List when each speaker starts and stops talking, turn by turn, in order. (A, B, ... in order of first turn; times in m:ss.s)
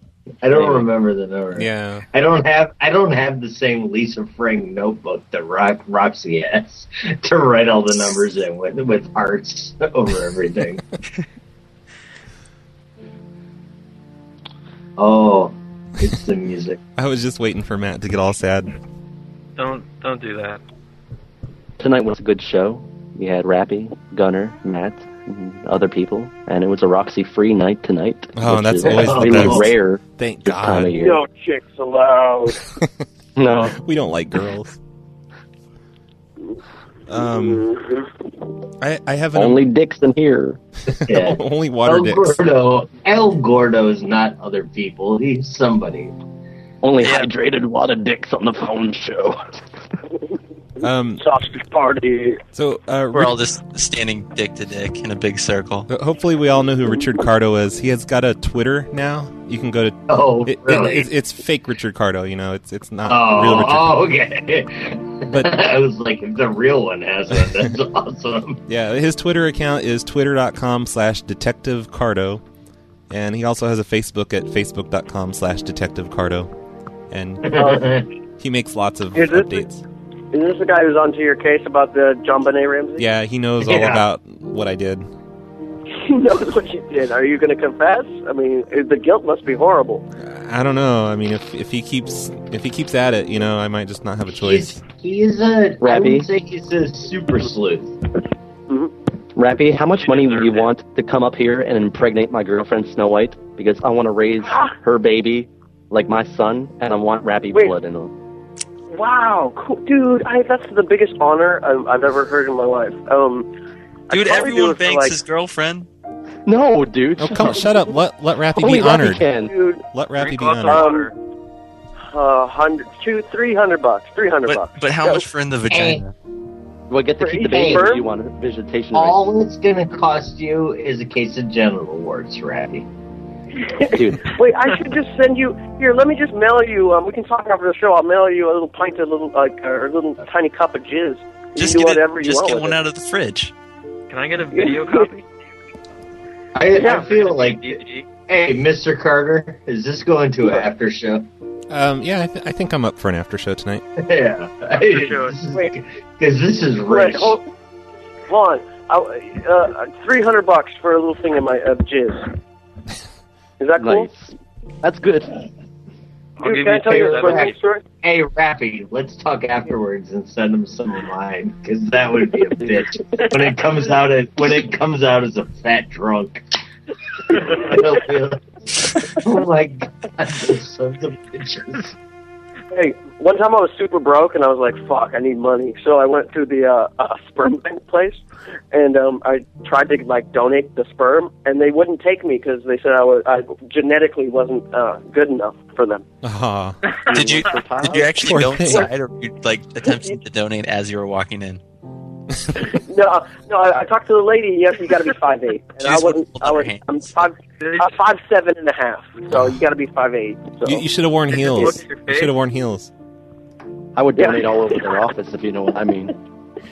0:00.4-0:10.8 A
0:00.5-0:00.8 B
0:01.6-0:02.0 C
0:15.0-0:16.8 A
0:17.0-0:18.7 C
0:19.6-0:20.6 D
0:21.8-0:31.2 B
0:28.4-0:31.0 C
0:28.8-0:29.7 A
0:30.9-0:32.6 E
0:33.4-0:33.8 B
0:33.5-0:34.8 C
0:37.1-0:37.7 C
0:37.2-0:37.7 E
0:38.8-0:39.7 C
0:39.3-0:40.6 B
0:40.9-0:42.4 C
0:41.1-0:46.1 A
0:46.8-0:49.4 B
0:47.0-0:47.3 F
0:50.8-0:51.2 C
0:50.8-0:52.4 E
0:52.5-0:53.4 C
0:53.1-0:55.9 F
0:55.9-1:03.9 C
1:00.1-1:01.1 A
1:03.1-1:08.6 A
1:05.3-1:05.6 C
1:07.4-1:07.7 C
1:08.7-1:12.4 C
1:13.1-1:16.5 C
1:17.1-1:17.7 C
1:17.4-1:18.1 A
1:18.4-1:19.8 C
1:19.1-1:19.7 E
1:20.3-1:23.1 E
1:23.0-1:25.1 C
1:23.6-1:24.1 A
1:26.0-1:30.1 E
1:30.2-1:34.8 C
1:34.3-1:38.0 A
1:35.8-1:36.3 B
1:39.4-1:48.1 B
1:40.0-1:40.7 D
1:48.9-1:53.5 E
1:54.1-1:55.2 E
1:54.1-1:55.9 F
1:56.5-1:57.9 B
1:57.2-1:59.3 C
1:58.6-1:59.5 B
1:59.4-1:59.9 E
1:59.9-2:00.9 C
2:00.2-2:01.1 D
2:00.6-2:01.1 E
2:02.0-2:05.2 E
2:04.4-2:06.1 F
2:05.7-2:06.0 A
2:06.9-2:09.3 B
2:07.2-2:08.1 E
2:07.5-2:07.8 A
2:08.9-2:12.9 A
2:13.7-2:22.8 E
2:13.9-2:14.3 B
2:21.6-2:23.5 F
2:24.1-2:25.2 D
2:24.5-2:25.1 E
2:26.6-2:27.8 A
2:26.6-2:28.1 D
2:26.8-2:27.1 E
2:28.3-2:31.3 A
2:31.7-2:33.8 C
2:34.0-2:37.4 A
2:34.9-2:35.4 D
2:36.9-2:37.5 E
2:38.3-2:42.3 E
2:43.6-2:44.1 E
2:43.8-2:45.3 B
2:46.4-2:47.6 D
2:46.4-2:47.8 E
2:46.9-2:47.5 A
2:48.0-2:56.4 A
2:57.3-3:01.9 A
3:02.7-3:08.2 E
3:08.7-3:16.0 E
3:16.2-3:16.8 C
3:17.1-3:17.6 D
3:17.1-3:18.2 B
3:17.1-3:21.6 F
3:18.2-3:18.9 C
3:19.9-3:20.2 E
3:22.6-3:31.8 E
3:25.8-3:27.1 F
3:27.6-3:28.0 D
3:30.6-3:32.9 C
3:31.3-3:32.4 D
3:34.0-3:36.2 B
3:34.2-3:35.0 E